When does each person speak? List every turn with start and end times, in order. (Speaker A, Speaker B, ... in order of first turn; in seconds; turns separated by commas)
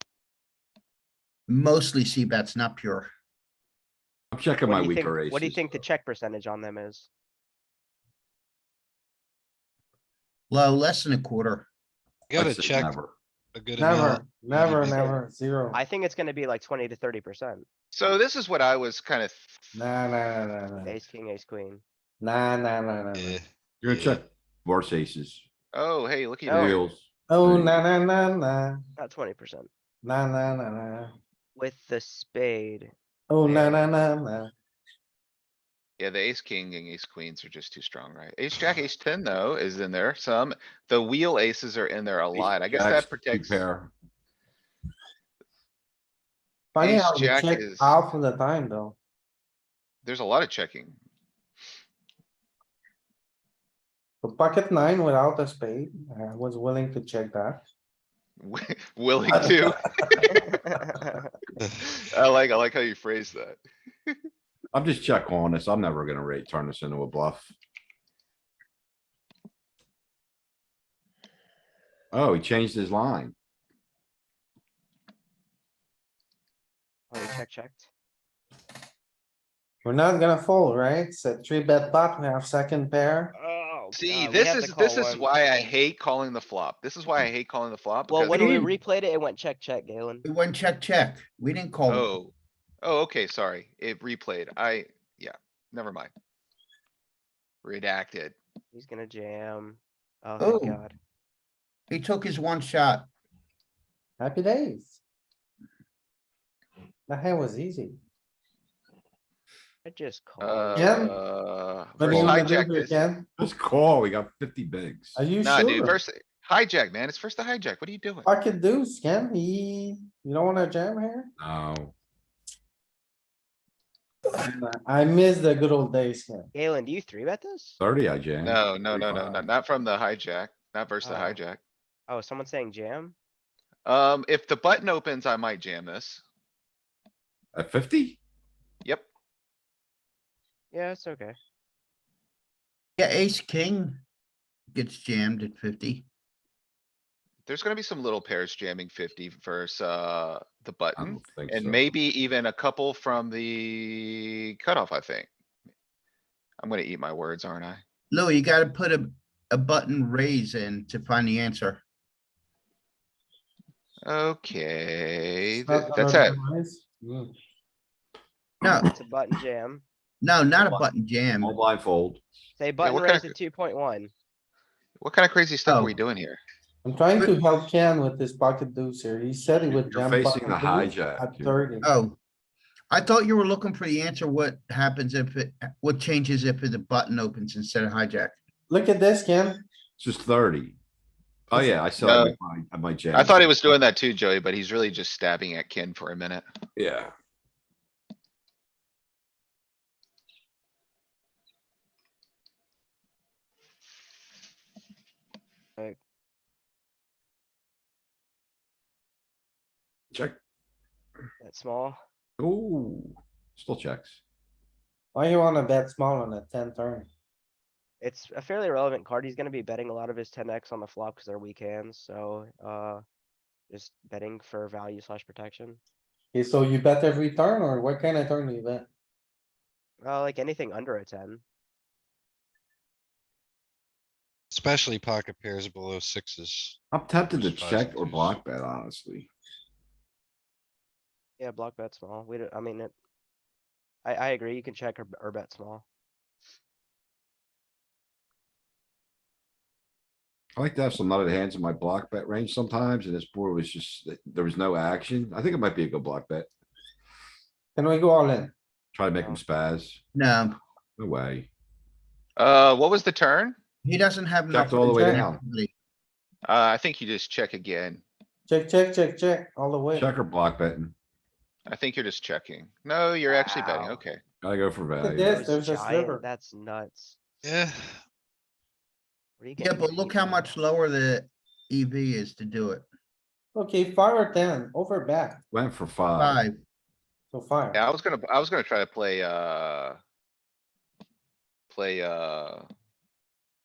Speaker A: 1.5-3.1, Speaker B: 4.3-5.8, Speaker C: 4.6-7.1, Speaker A: 10.5-11.7, Speaker D: 12.3-12.9, Speaker B: 12.3-13.1, Speaker D: 13.5-15.1, Speaker E: 13.8-15.8, Speaker C: 14.6-15.2, Speaker C: 15.7-17.6, Speaker F: 17.9-19.6, Speaker E: 19.7-20.9, Speaker C: 20.8-21.8, Speaker E: 22.2-23.3, Speaker D: 23.1-24.2, Speaker B: 23.8-25.4, Speaker F: 25.7-26.8, Speaker C: 26.5-26.8, Speaker B: 26.5-27.8, Speaker E: 27.3-28.7, Speaker C: 29.0-29.7, Speaker E: 30.0-31.1, Speaker C: 31.5-32.9, Speaker E: 33.3-34.5, Speaker F: 33.4-33.8, Speaker F: 36.0-43.6, Speaker B: 42.3-43.9, Speaker E: 46.8-48.9, Speaker F: 46.8-48.0, Speaker F: 50.0-51.0, Speaker E: 54.2-57.6, Speaker F: 58.4-60.4, Speaker C: 60.3-61.3, Speaker F: 61.7-64.2, Speaker B: 64.7-67.5, Speaker B: 72.1-73.3, Speaker C: 77.1-77.9, Speaker E: 79.8-83.3, Speaker C: 83.3-85.3, Speaker F: 83.9-88.6, Speaker C: 88.1-90.2, Speaker B: 88.3-88.7, Speaker A: 90.2-92.1, Speaker F: 91.9-96.1, Speaker F: 97.6-98.3, Speaker C: 98.7-100.9, Speaker A: 100.4-100.8, Speaker A: 101.9-103.1, Speaker E: 104.2-105.0, Speaker E: 107.1-107.9, Speaker C: 109.8-111.1, Speaker F: 110.4-113.0, Speaker E: 110.8-111.1, Speaker E: 112.0-113.2, Speaker B: 112.0-112.5, Speaker B: 113.4-115.2, Speaker E: 115.1-116.0, Speaker F: 115.4-118.3, Speaker E: 118.3-121.3, Speaker B: 121.4-121.9, Speaker E: 124.4-126.5, Speaker C: 126.5-127.8, Speaker B: 127.8-129.4, Speaker F: 128.4-131.6, Speaker C: 131.0-131.4, Speaker C: 132.1-133.1, Speaker F: 133.8-136.2, Speaker B: 137.5-138.2, Speaker C: 140.7-141.4, Speaker A: 143.0-144.0, Speaker A: 144.7-146.0, Speaker F: 147.4-155.3, Speaker B: 150.9-151.8, Speaker F: 156.6-157.8, Speaker A: 158.1-161.8, Speaker F: 164.0-166.4, Speaker E: 165.6-167.3, Speaker A: 168.6-168.9, Speaker C: 168.8-169.8, Speaker A: 170.2-171.5, Speaker C: 170.6-170.8, Speaker B: 171.4-172.2, Speaker C: 172.6-174.1, Speaker F: 172.8-173.3, Speaker F: 175.0-176.4, Speaker A: 175.6-175.9, Speaker E: 176.8-181.9, Speaker B: 179.7-181.7, Speaker A: 181.8-182.2, Speaker A: 182.9-188.3, Speaker E: 188.7-189.6, Speaker B: 190.0-190.8, Speaker B: 191.5-193.3, Speaker F: 192.0-192.3, Speaker F: 193.1-196.4, Speaker B: 196.8-197.1, Speaker B: 210.1-210.4, Speaker C: 211.4-212.0, Speaker B: 212.4-214.2, Speaker E: 215.1-217.1, Speaker C: 218.0-223.0, Speaker C: 223.7-225.8, Speaker E: 226.3-228.8, Speaker C: 230.0-231.4, Speaker D: 234.5-238.4, Speaker B: 236.9-239.3, Speaker C: 241.4-242.9, Speaker C: 244.0-245.8, Speaker B: 250.5-256.5, Speaker E: 257.8-258.5, Speaker B: 258.9-260.0, Speaker A: 260.1-260.6, Speaker B: 261.0-261.5, Speaker F: 262.4-263.6, Speaker A: 263.8-265.7, Speaker B: 264.5-265.4, Speaker F: 266.4-268.0, Speaker E: 268.5-270.1, Speaker B: 269.9-270.9, Speaker F: 271.7-274.2, Speaker C: 273.3-274.0, Speaker B: 274.4-275.4, Speaker E: 275.0-276.2, Speaker C: 275.2-277.2, Speaker D: 277.4-278.0, Speaker C: 279.4-280.6, Speaker A: 279.6-282.9, Speaker E: 283.5-285.4, Speaker B: 285.5-286.4, Speaker A: 286.1-286.6, Speaker E: 287.3-287.8, Speaker F: 287.7-290.0, Speaker F: 291.7-292.7